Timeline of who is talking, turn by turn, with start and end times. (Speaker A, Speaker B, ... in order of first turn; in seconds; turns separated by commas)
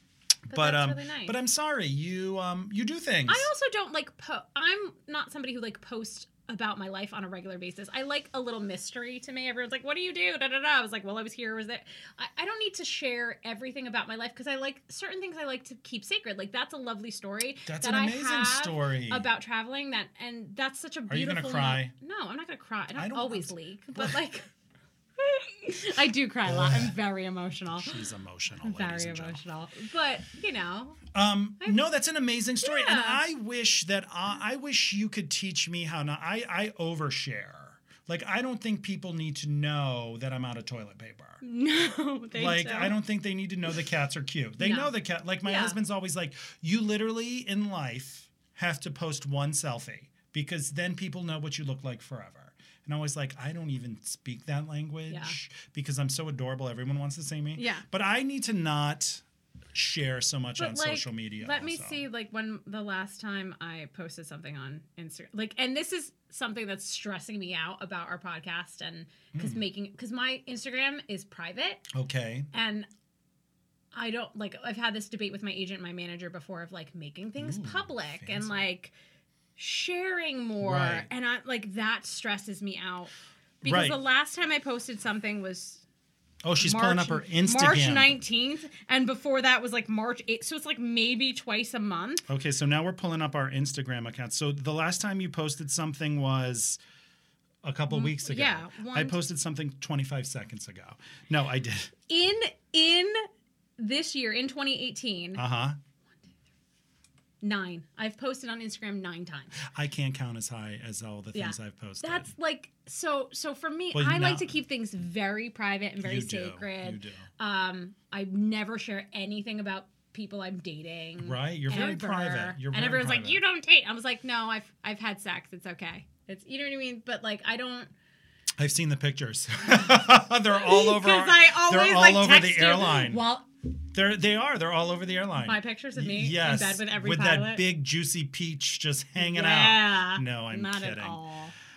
Speaker A: 0.5-3.5, Speaker B: 0.5-1.4, Speaker B: 3.3-24.5, Speaker A: 17.7-19.3, Speaker A: 21.1-21.9, Speaker A: 22.9-24.2, Speaker B: 25.2-28.0, Speaker A: 26.4-26.9, Speaker A: 27.8-29.4, Speaker B: 28.6-31.0, Speaker A: 31.1-41.4, Speaker B: 32.6-33.2, Speaker B: 41.4-43.0, Speaker A: 42.4-62.0, Speaker B: 44.6-45.8, Speaker B: 55.1-55.4, Speaker B: 57.6-57.9, Speaker B: 60.6-71.9, Speaker A: 69.3-69.6, Speaker A: 71.9-72.5, Speaker B: 72.5-72.9, Speaker B: 73.9-79.0, Speaker A: 77.4-78.7, Speaker B: 79.6-85.8, Speaker A: 80.6-81.1, Speaker A: 83.6-84.0, Speaker A: 86.4-88.2, Speaker B: 86.6-92.3, Speaker A: 92.3-96.8, Speaker A: 97.6-101.9, Speaker B: 97.9-99.2, Speaker B: 102.1-103.3, Speaker B: 103.8-105.4, Speaker A: 105.4-105.8, Speaker B: 107.4-109.6, Speaker A: 109.6-112.3, Speaker B: 111.3-127.9, Speaker A: 113.9-114.6, Speaker A: 116.0-117.3, Speaker A: 121.2-123.4, Speaker A: 128.6-133.2, Speaker B: 130.5-133.4, Speaker A: 133.9-141.2, Speaker B: 135.4-137.6, Speaker B: 139.2-141.5